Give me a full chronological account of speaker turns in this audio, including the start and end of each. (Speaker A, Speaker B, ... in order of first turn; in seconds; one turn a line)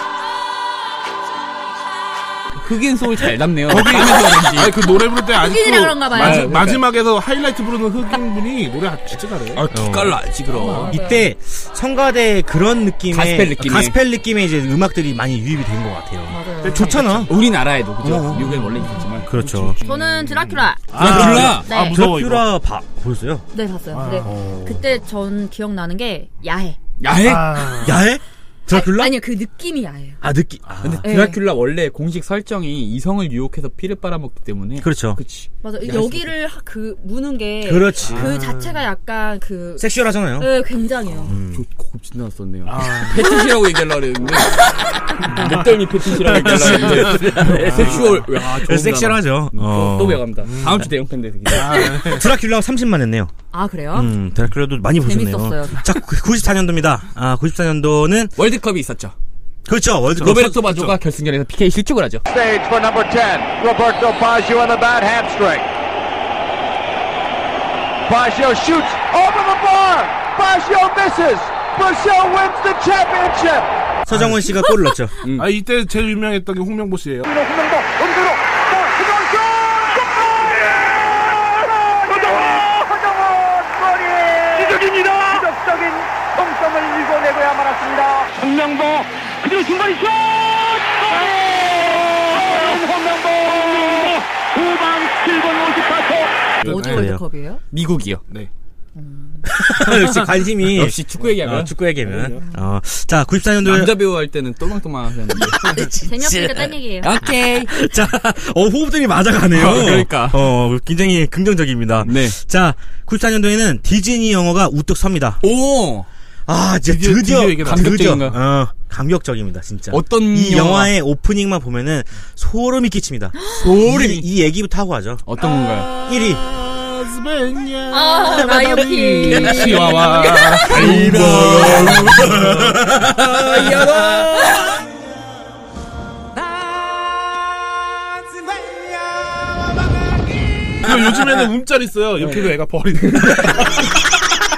Speaker A: 2.5-4.8
Speaker B: 3.7-9.6
Speaker C: 5.3-6.7
Speaker A: 6.1-6.9
Speaker A: 9.5-10.9
Speaker D: 9.7-10.2
Speaker C: 10.5-11.3
Speaker D: 10.8-17.3
Speaker A: 13.1-14.0
Speaker C: 16.3-17.0
Speaker B: 16.6-17.3
Speaker A: 17.3-20.1
Speaker D: 18.0-18.6
Speaker B: 18.4-18.8
Speaker D: 19.3-19.8
Speaker C: 19.8-22.1
Speaker B: 20.4-22.5
Speaker A: 20.9-21.7
Speaker D: 21.0-23.4
Speaker C: 23.5-26.8
Speaker B: 23.9-24.3
Speaker D: 24.2-24.8
Speaker A: 27.0-27.9
Speaker B: 27.2-28.0
Speaker D: 27.8-29.2
Speaker C: 28.7-30.2
Speaker D: 30.2-31.1
Speaker A: 30.8-36.3
Speaker C: 31.0-31.4
Speaker D: 34.8-35.2
Speaker C: 35.6-39.9
Speaker D: 37.6-38.4
Speaker B: 38.0-38.8
Speaker D: 39.8-40.5
Speaker C: 40.4-41.4
Speaker D: 41.2-41.6
Speaker A: 41.5-44.6
Speaker B: 42.6-43.3
Speaker A: 45.2-51.9
Speaker B: 45.3-45.6
Speaker B: 46.2-48.2
Speaker D: 46.4-50.2
Speaker B: 50.4-50.9
Speaker B: 51.5-52.3
Speaker D: 51.8-53.3
Speaker C: 53.5-54.1
Speaker D: 53.9-58.3
Speaker C: 55.0-55.9
Speaker A: 58.4-59.1
Speaker D: 59.6-60.9
Speaker A: 60.2-62.2
Speaker B: 60.2-60.9
Speaker E: 62.3-65.7
Speaker E: 68.0-73.7
Speaker D: 74.0-75.1
Speaker B: 74.1-74.5
Speaker A: 75.2-75.5
Speaker B: 75.3-77.3
Speaker E: 77.2-96.6
Speaker C: 96.6-97.6
Speaker B: 96.6-97.0
Speaker D: 96.7-97.2
Speaker A: 97.7-98.2
Speaker C: 99.0-99.5
Speaker D: 99.5-104.0
Speaker B: 99.8-100.3
Speaker A: 100.6-102.3
Speaker A: 103.6-105.7
Speaker D: 105.3-115.4
Speaker C: 106.0-107.7
Speaker A: 107.0-107.6
Speaker A: 109.5-110.4
Speaker A: 112.0-112.4
Speaker A: 115.4-116.1
Speaker D: 116.5-125.2
Speaker B: 116.8-118.2
Speaker A: 117.6-118.4
Speaker A: 119.9-120.9
Speaker C: 123.4-123.6
Speaker A: 123.5-124.3
Speaker A: 125.2-125.9
Speaker B: 125.9-132.8
Speaker D: 126.0-126.4
Speaker C: 127.9-130.9
Speaker A: 129.8-134.7
Speaker D: 130.9-133.2
Speaker B: 140.8-144.0
Speaker A: 143.0-143.6